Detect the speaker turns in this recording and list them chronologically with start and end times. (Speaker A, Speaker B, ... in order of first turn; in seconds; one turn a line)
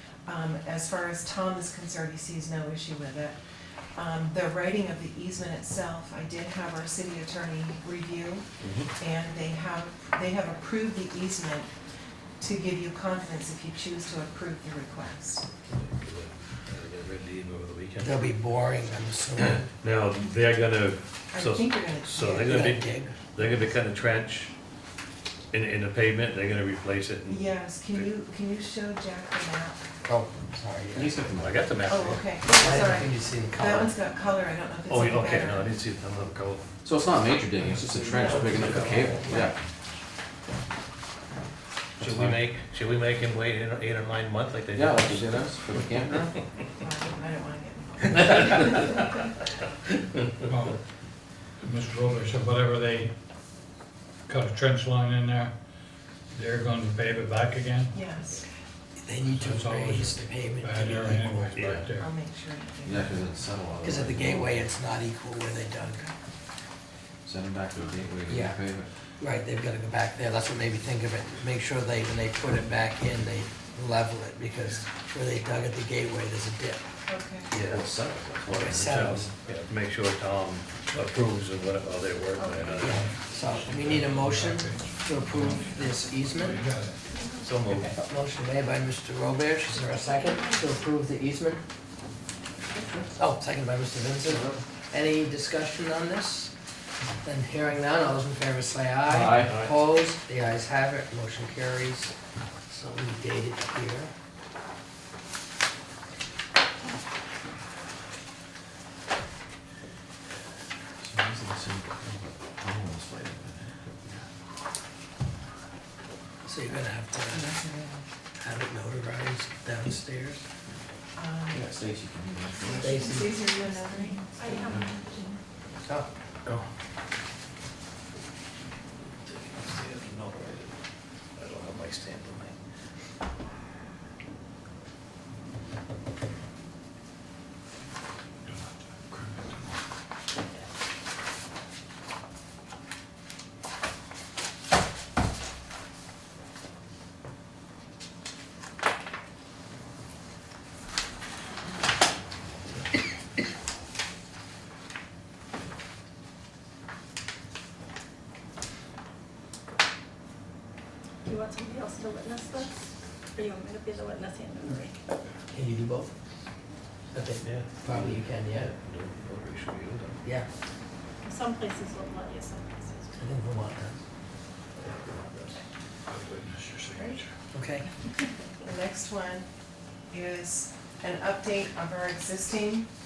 Speaker A: 0.3-3.4
Speaker A: 4.0-8.5
Speaker B: 8.6-8.9
Speaker A: 9.0-11.7
Speaker A: 12.4-15.4
Speaker B: 15.7-18.2
Speaker C: 18.0-19.7
Speaker B: 19.7-24.5
Speaker A: 21.3-22.7
Speaker C: 22.3-23.2
Speaker B: 25.5-28.1
Speaker A: 27.3-29.8
Speaker C: 30.1-31.2
Speaker D: 30.9-31.6
Speaker B: 31.4-32.2
Speaker A: 31.9-35.7
Speaker C: 32.5-33.9
Speaker B: 34.9-36.7
Speaker D: 36.8-39.5
Speaker A: 38.0-39.5
Speaker B: 38.4-39.2
Speaker B: 42.0-45.4
Speaker D: 44.7-46.4
Speaker A: 46.8-49.0
Speaker E: 50.5-50.8
Speaker E: 51.6-53.1
Speaker E: 54.3-55.5
Speaker E: 56.3-57.9
Speaker A: 57.9-58.5
Speaker C: 59.0-61.5
Speaker E: 59.3-62.1
Speaker B: 61.5-61.8
Speaker D: 61.6-61.9
Speaker A: 61.9-63.3
Speaker D: 62.8-64.6
Speaker C: 63.8-66.0
Speaker D: 67.2-68.9
Speaker C: 68.3-68.6
Speaker C: 69.2-76.8
Speaker A: 77.1-77.5
Speaker D: 77.5-78.7
Speaker B: 77.5-83.1
Speaker C: 78.5-79.3
Speaker F: 82.4-82.9
Speaker C: 82.8-86.6
Speaker E: 82.8-87.0
Speaker F: 87.1-87.5
Speaker B: 87.4-87.9
Speaker E: 87.7-88.0
Speaker C: 88.0-91.6
Speaker F: 89.7-90.8
Speaker C: 93.2-96.5
Speaker D: 94.3-94.6
Speaker C: 97.2-102.1
Speaker E: 99.1-99.4
Speaker D: 99.1-99.6
Speaker B: 99.4-99.8
Speaker C: 102.7-104.1
Speaker D: 111.0-114.3
Speaker C: 116.5-117.5
Speaker A: 117.3-118.1
Speaker C: 118.4-120.4
Speaker A: 121.2-121.7
Speaker D: 121.5-123.0
Speaker A: 122.7-124.6
Speaker C: 122.8-123.4
Speaker F: 123.4-125.4
Speaker D: 124.6-124.9
Speaker B: 129.2-130.7
Speaker B: 131.4-132.6
Speaker D: 138.5-139.5
Speaker F: 161.2-162.7
Speaker F: 163.4-165.0
Speaker C: 165.5-166.1
Speaker C: 167.1-168.7
Speaker B: 167.4-170.2
Speaker F: 171.2-173.1
Speaker C: 173.2-173.9
Speaker B: 175.1-175.6
Speaker B: 176.3-176.7
Speaker E: 176.3-177.2
Speaker C: 177.5-177.9
Speaker A: 178.6-179.5
Speaker A: 180.1-182.9